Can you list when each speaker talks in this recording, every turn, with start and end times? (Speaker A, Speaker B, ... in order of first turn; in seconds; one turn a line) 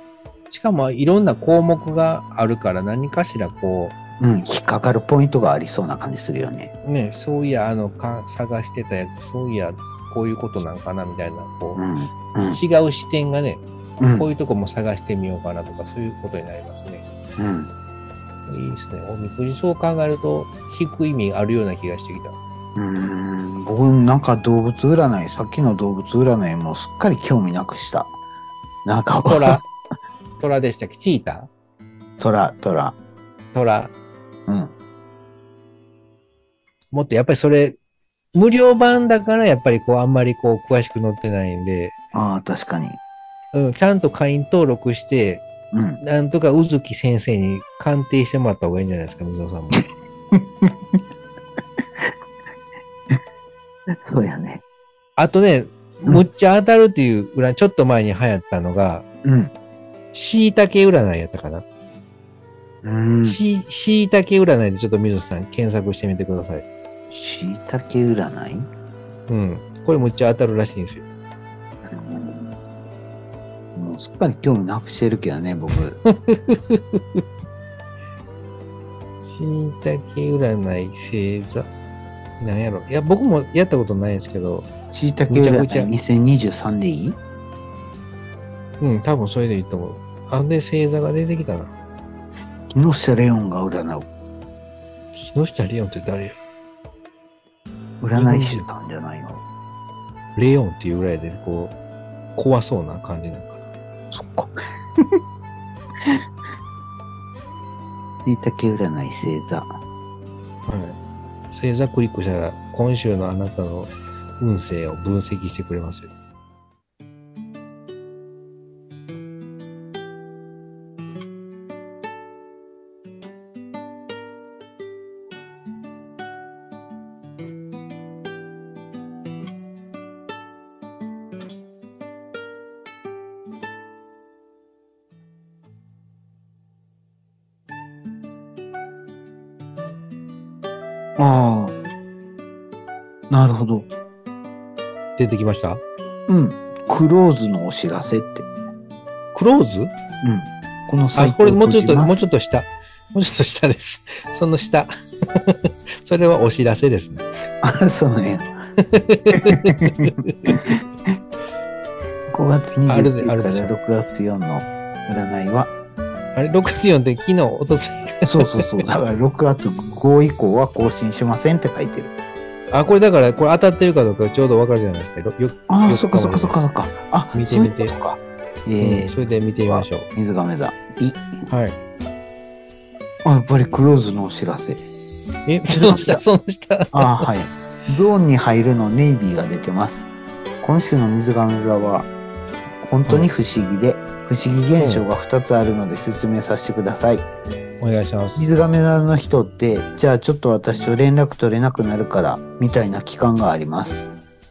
Speaker A: 0.5-4.0
Speaker B: 4.2-6.7
Speaker A: 6.8-11.8
Speaker B: 11.8-12.6
Speaker A: 12.5-17.0
Speaker B: 14.0-14.3
Speaker B: 17.4-17.7
Speaker A: 18.5-22.4
Speaker B: 22.8-28.1
Speaker B: 28.8-29.6
Speaker A: 29.2-29.6
Speaker A: 30.4-31.5
Speaker B: 32.2-33.0
Speaker A: 33.5-33.9
Speaker B: 34.5-34.7
Speaker A: 36.9-37.8
Speaker A: 38.3-41.9
Speaker B: 42.1-43.0
Speaker A: 43.5-45.4
Speaker B: 45.7-46.0
Speaker A: 46.0-49.9
Speaker B: 50.3-51.0
Speaker B: 54.0-54.6
Speaker A: 55.2-59.0
Speaker B: 59.2-59.5
Speaker A: 60.1-61.6
Speaker B: 62.8-63.4
Speaker A: 63.2-66.7
Speaker B: 67.1-68.7
Speaker A: 69.3-71.0
Speaker B: 71.9-72.5
Speaker B: 73.7-76.0
Speaker A: 76.0-77.2
Speaker A: 79.2-81.7
Speaker A: 82.4-84.7
Speaker B: 84.9-87.2
Speaker A: 85.3-85.9
Speaker A: 88.8-91.7
Speaker B: 92.7-94.1
Speaker A: 95.1-96.4
Speaker B: 98.0-99.4
Speaker A: 98.1-98.7
Speaker A: 100.3-101.8
Speaker A: 102.3-103.6
Speaker B: 104.1-105.2
Speaker B: 108.2-109.7
Speaker A: 110.7-111.0
Speaker A: 111.5-116.1
Speaker B: 141.2-141.7
Speaker B: 143.3-143.9
Speaker A: 145.2-145.8
Speaker B: 146.3-148.5
Speaker A: 149.3-149.9
Speaker B: 150.2-152.2
Speaker A: 151.1-157.2
Speaker B: 157.6-158.5
Speaker A: 158.8-160.6
Speaker B: 159.3-161.2
Speaker B: 162.3-165.7
Speaker A: 162.9-163.7
Speaker A: 166.3-168.8
Speaker B: 168.2-172.1
Speaker A: 172.7-176.6
Speaker B: 175.7-179.1
Speaker A: 177.3-177.9
Speaker A: 178.8-180.1
Speaker B: 179.7-181.2
Speaker A: 181.5-181.8
Speaker B: 183.2-184.8
Speaker A: 185.5-187.3
Speaker B: 185.7-186.2
Speaker B: 186.9-190.1
Speaker B: 190.6-192.1
Speaker B: 192.8-197.2
Speaker A: 194.8-195.1
Speaker A: 197.8-198.4
Speaker B: 198.4-204.1